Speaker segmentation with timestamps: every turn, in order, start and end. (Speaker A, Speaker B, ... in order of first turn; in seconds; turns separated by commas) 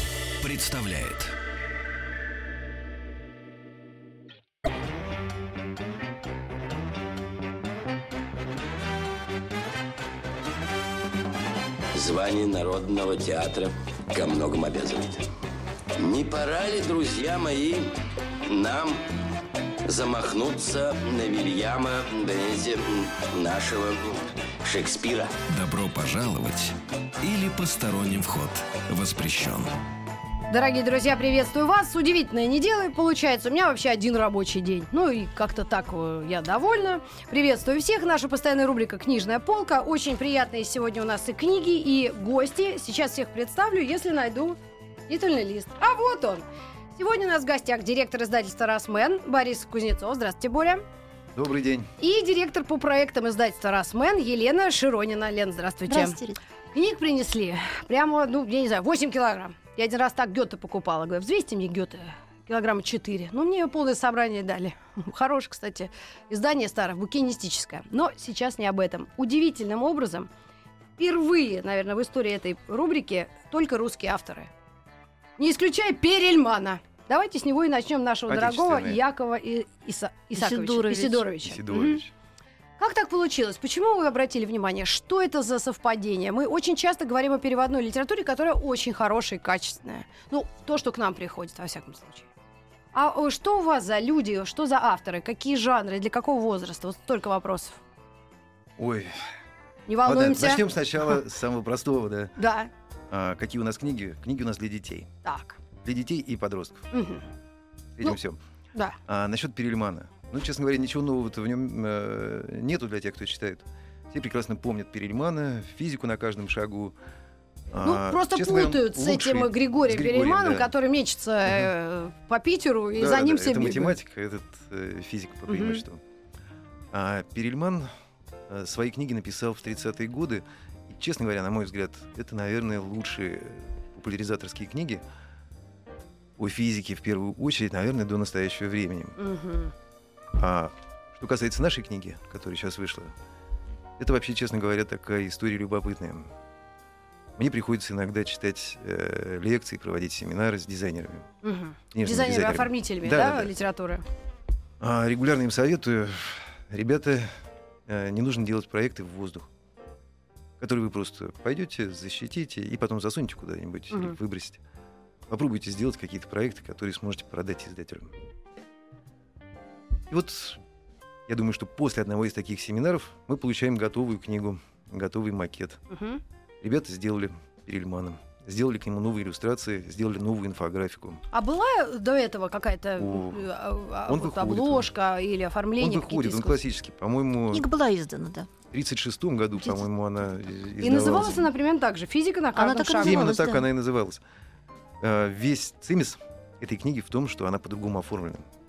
Speaker A: 0.4-1.3, Speaker B: 11.9-15.3, Speaker B: 16.0-17.9, Speaker B: 18.5-19.0, Speaker B: 19.9-25.4, Speaker A: 25.5-29.7, Speaker C: 30.5-46.4, Speaker C: 47.0-50.8, Speaker D: 51.3-51.9, Speaker C: 52.0-56.2, Speaker E: 55.9-56.4, Speaker C: 56.7-70.3, Speaker C: 71.0-74.5, Speaker C: 75.4-82.0, Speaker D: 78.3-79.0, Speaker E: 80.3-81.3, Speaker D: 81.4-82.1, Speaker C: 82.8-92.3, Speaker C: 92.9-97.8, Speaker D: 98.8-99.2, Speaker C: 99.9-100.8, Speaker D: 100.0-102.4, Speaker C: 102.4-102.7, Speaker D: 103.1-105.1, Speaker C: 105.2-105.6, Speaker D: 105.8-106.9, Speaker C: 106.9-107.3, Speaker D: 108.0-108.4, Speaker D: 109.1-117.0, Speaker D: 117.7-120.7, Speaker C: 117.8-124.0, Speaker D: 123.0-126.0, Speaker C: 125.5-125.8, Speaker D: 126.9-127.9, Speaker D: 128.5-135.0, Speaker D: 136.4-139.2, Speaker C: 139.2-139.7, Speaker D: 140.3-143.2, Speaker D: 144.0-146.3, Speaker D: 147.4-151.3, Speaker C: 151.4-154.0, Speaker D: 151.9-153.5, Speaker D: 154.8-159.5, Speaker D: 160.6-164.6, Speaker D: 165.3-168.2, Speaker D: 170.1-170.6, Speaker D: 171.3-175.8, Speaker C: 175.9-176.2, Speaker D: 176.6-181.2, Speaker C: 181.3-186.6, Speaker D: 183.0-183.5, Speaker D: 184.1-184.9, Speaker D: 185.8-187.7, Speaker E: 187.5-188.5, Speaker D: 188.7-191.5, Speaker C: 190.8-193.4, Speaker E: 192.5-193.7, Speaker D: 193.0-194.2, Speaker D: 195.0-198.4